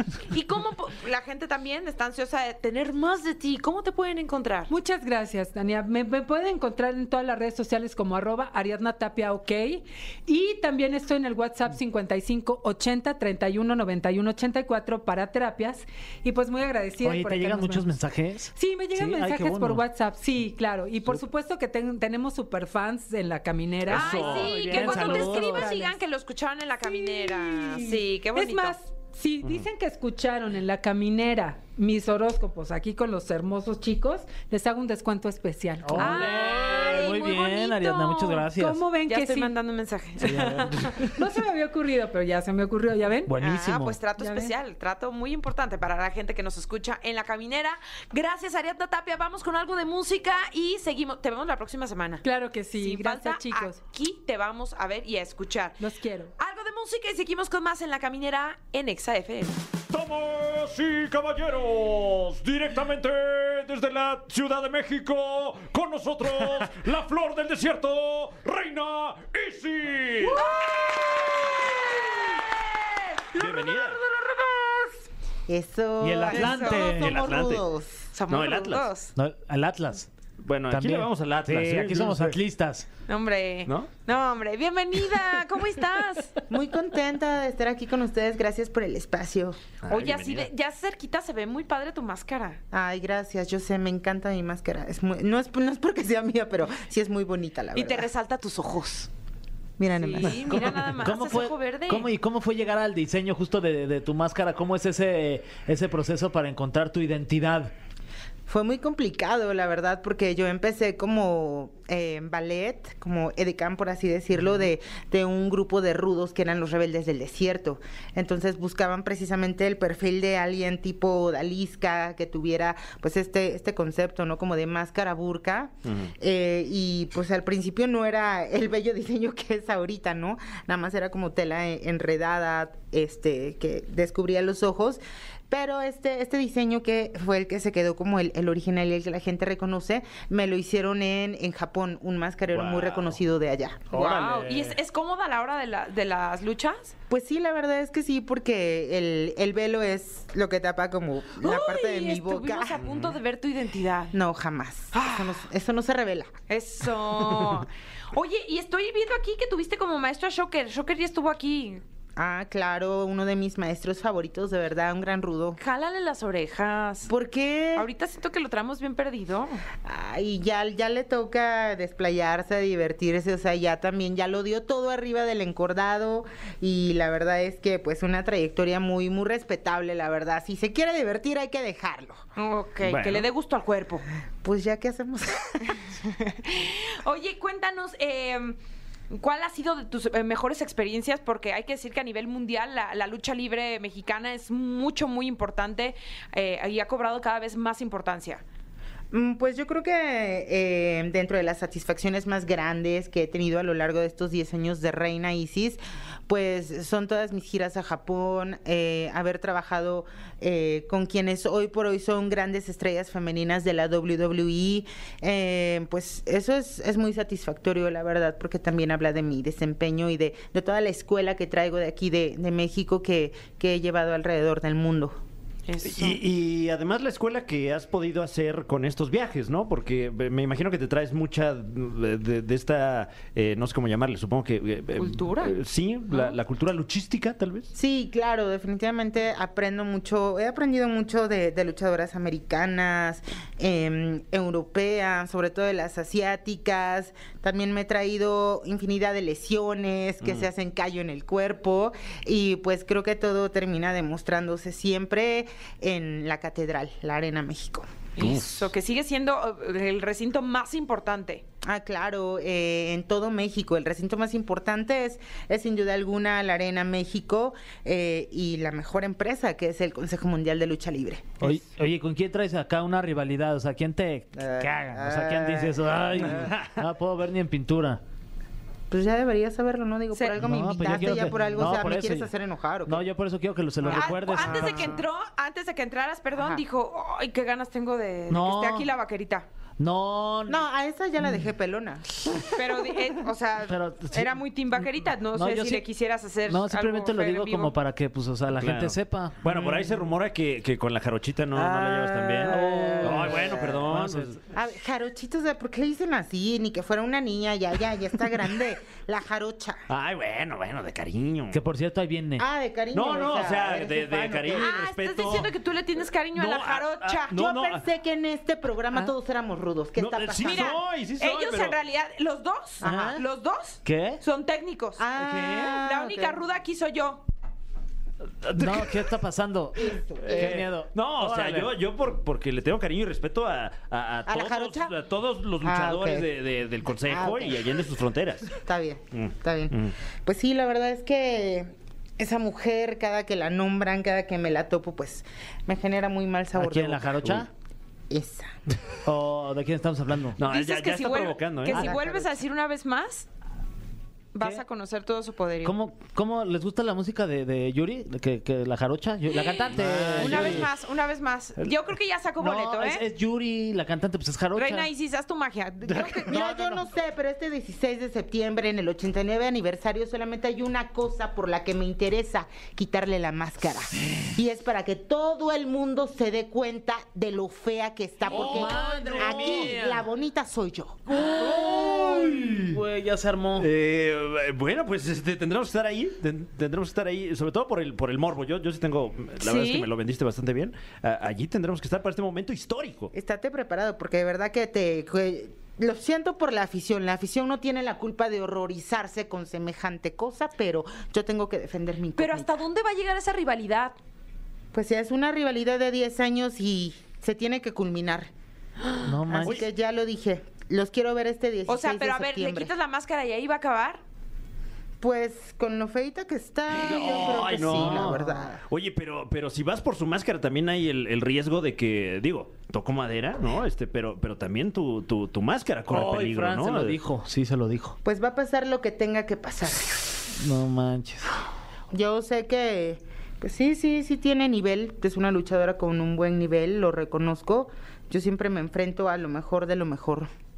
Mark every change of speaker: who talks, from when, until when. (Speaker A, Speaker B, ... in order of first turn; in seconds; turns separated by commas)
Speaker A: 0.3-4.7, Speaker B: 4.7-17.9, Speaker C: 17.0-19.8, Speaker B: 18.5-26.0, Speaker D: 23.9-24.6, Speaker A: 23.9-28.8, Speaker C: 24.0-25.7, Speaker B: 26.8-36.3, Speaker C: 35.8-38.8, Speaker A: 35.9-38.5, Speaker B: 38.5-39.5, Speaker A: 39.1-40.6, Speaker C: 40.2-41.2, Speaker B: 40.2-43.3, Speaker C: 43.2-44.0, Speaker A: 43.4-55.8, Speaker B: 44.2-44.5, Speaker B: 52.2-53.8, Speaker B: 55.8-56.3, Speaker A: 56.4-59.6, Speaker D: 59.9-70.5, Speaker A: 70.3-71.0, Speaker D: 73.3-74.0, Speaker A: 73.3-74.9, Speaker E: 75.5-78.0, Speaker C: 76.0-77.2, Speaker A: 76.3-76.9, Speaker D: 76.9-77.6, Speaker A: 78.1-79.1, Speaker D: 78.3-78.9, Speaker C: 79.2-80.1, Speaker D: 80.4-82.3, Speaker C: 80.7-82.8, Speaker A: 83.1-86.3, Speaker E: 86.5-89.7, Speaker D: 89.8-90.5, Speaker A: 89.9-92.6, Speaker E: 92.7-98.1, Speaker A: 97.7-99.1, Speaker E: 99.8-100.7, Speaker A: 99.9-102.1, Speaker C: 100.4-107.7, Speaker E: 108.5-143.9, Speaker D: 125.8-126.1, Speaker D: 142.5-143.2, Speaker A: 143.9-146.9, Speaker D: 143.9-144.7, Speaker E: 147.1-152.8, Speaker A: 151.4-154.2, Speaker D: 152.8-153.2, Speaker E: 154.1-156.3, Speaker A: 154.9-155.4, Speaker A: 156.5-161.8, Speaker E: 162.2-165.6, Speaker A: 165.6-167.1, Speaker E: 167.1-167.9, Speaker A: 167.8-169.6, Speaker E: 169.8-182.2, Speaker A: 182.3-184.0, Speaker D: 182.8-183.2, Speaker E: 184.4-186.3, Speaker A: 186.4-188.6, Speaker A: 189.1-198.4, Speaker E: 199.1-225.2, Speaker A: 225.7-226.2, Speaker D: 225.8-237.7, Speaker A: 235.0-235.5, Speaker E: 237.7-257.9, Speaker D: 250.2-250.5, Speaker A: 258.1-261.4, Speaker D: 258.2-258.6, Speaker E: 261.6-271.6, Speaker C: 271.4-278.0, Speaker E: 274.4-276.5, Speaker E: 278.9-283.0, Speaker A: 280.1-280.4, Speaker C: 280.4-282.3, Speaker C: 282.9-284.9, Speaker E: 283.8-285.0, Speaker A: 283.9-289.4, Speaker E: 286.4-286.6, Speaker C: 288.3-288.9, Speaker C: 289.8-290.6, Speaker E: 290.5-292.9, Speaker A: 292.5-297.8, Speaker C: 293.7-295.8, Speaker C: 296.5-299.4, Speaker D: 298.6-304.4, Speaker E: 299.4-300.1, Speaker E: 301.5-303.9, Speaker C: 302.4-304.3, Speaker E: 304.5-309.8, Speaker D: 309.9-311.6, Speaker C: 311.5-312.4, Speaker E: 312.4-314.7, Speaker D: 312.9-315.5, Speaker A: 314.5-317.4, Speaker D: 316.3-317.8, Speaker E: 317.3-320.8, Speaker D: 319.9-321.8, Speaker A: 320.4-325.0, Speaker E: 322.8-323.2, Speaker C: 322.8-323.2, Speaker C: 323.8-324.2, Speaker E: 325.0-326.4, Speaker D: 325.2-325.7, Speaker A: 325.7-327.2, Speaker D: 328.4-328.9, Speaker C: 328.5-331.7, Speaker E: 329.8-330.6, Speaker D: 330.2-338.6, Speaker E: 334.3-334.9, Speaker E: 335.6-336.3, Speaker E: 337.1-337.7, Speaker E: 338.6-347.4, Speaker D: 339.1-339.9, Speaker C: 346.5-347.5, Speaker E: 348.1-348.5, Speaker C: 349.0-350.4, Speaker D: 350.4-351.9, Speaker A: 350.4-353.3, Speaker E: 351.7-352.3, Speaker A: 354.3-355.8, Speaker C: 355.6-360.7, Speaker D: 359.7-360.7, Speaker A: 360.1-363.0, Speaker C: 362.4-364.9, Speaker A: 364.5-366.5, Speaker C: 365.9-366.8, Speaker E: 366.2-381.3, Speaker C: 378.3-380.0, Speaker D: 378.3-380.0, Speaker C: 381.1-383.7, Speaker D: 381.3-382.8, Speaker D: 383.6-393.1, Speaker A: 389.4-389.9, Speaker E: 393.1-402.6, Speaker A: 402.1-403.9, Speaker E: 404.7-408.3, Speaker C: 409.0-409.6, Speaker E: 409.3-412.7, Speaker A: 411.7-414.0, Speaker E: 415.0-418.6, Speaker D: 416.7-427.0, Speaker C: 417.3-418.4, Speaker C: 425.9-428.0, Speaker E: 428.0-430.3, Speaker C: 430.4-431.3, Speaker E: 431.9-440.3